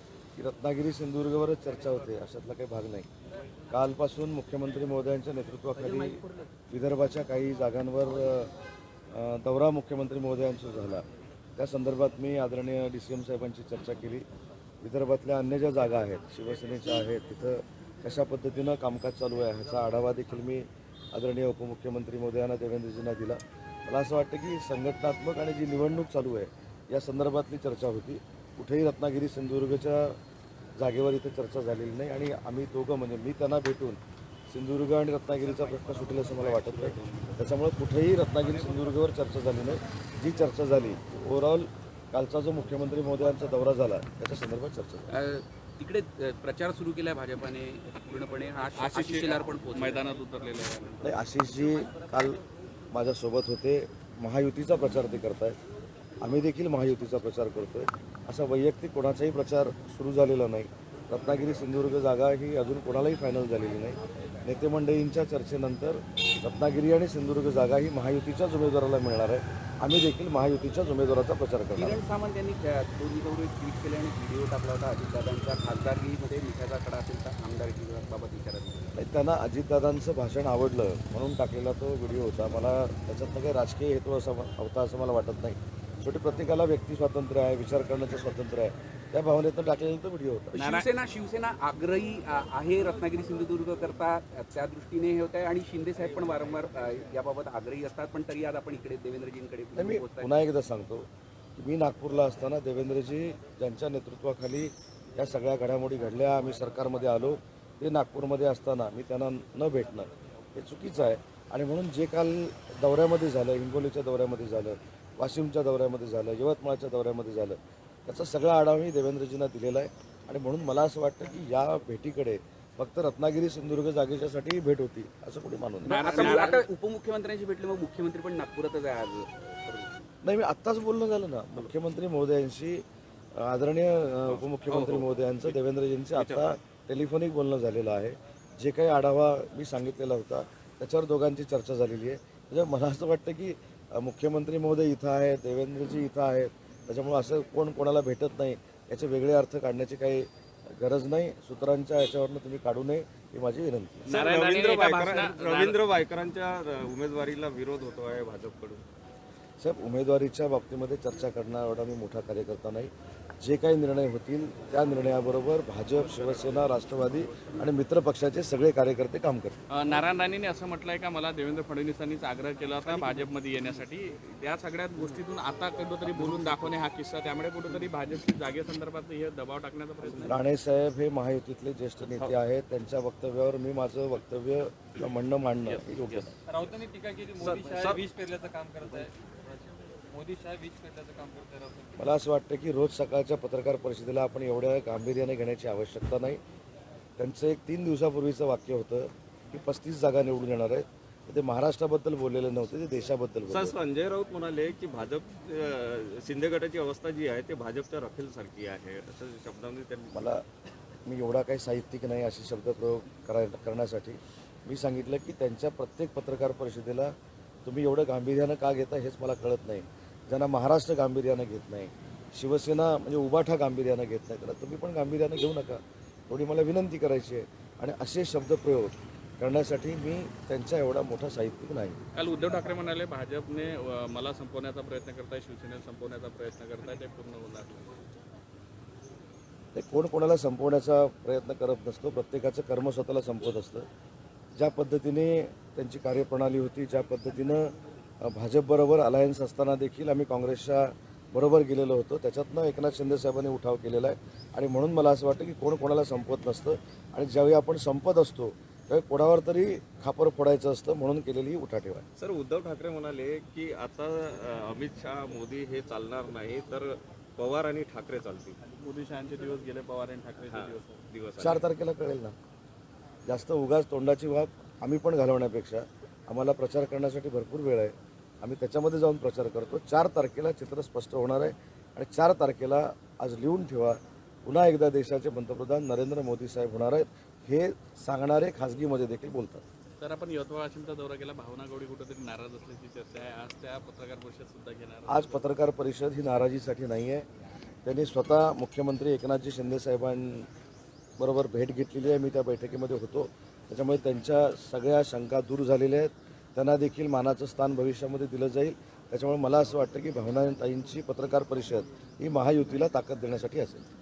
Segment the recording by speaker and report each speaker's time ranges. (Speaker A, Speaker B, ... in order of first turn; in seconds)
Speaker A: 0.3-3.1, 3.7-8.5, 9.1-11.0, 11.6-14.2, 14.8-30.2, 30.8-45.1, 51.0-55.6, 56.2-72.0, 79.0-90.5, 99.7-126.4, 130.2-154.1, 159.6-169.6, 180.1-186.3, 192.0-196.4, 197.2-203.7, 210.1-210.4, 211.1-217.1, 217.6-232.0, 239.7-243.9, 244.6-262.0, 271.4-272.3, 273.2-289.6, 295.1-297.2, 297.8-300.5, 301.2-313.8
Speaker B: 35.6-37.4, 134.3-135.6, 136.1-136.5, 154.1-158.8, 172.8-173.3, 176.2-176.5, 182.0-182.3, 185.7-186.6, 187.4-188.0, 203.5-210.3, 262.2-268.6, 270.4-271.6
Speaker C: 45.1-50.0, 71.8-79.0, 90.5-100.4, 125.9-129.9
Speaker D: 48.8-51.2, 90.6-90.8, 125.8-126.6, 154.1-155.8, 169.7-180.4, 232.1-237.9, 268.6-271.0, 290.0-295.6
Speaker E: 186.5-192.2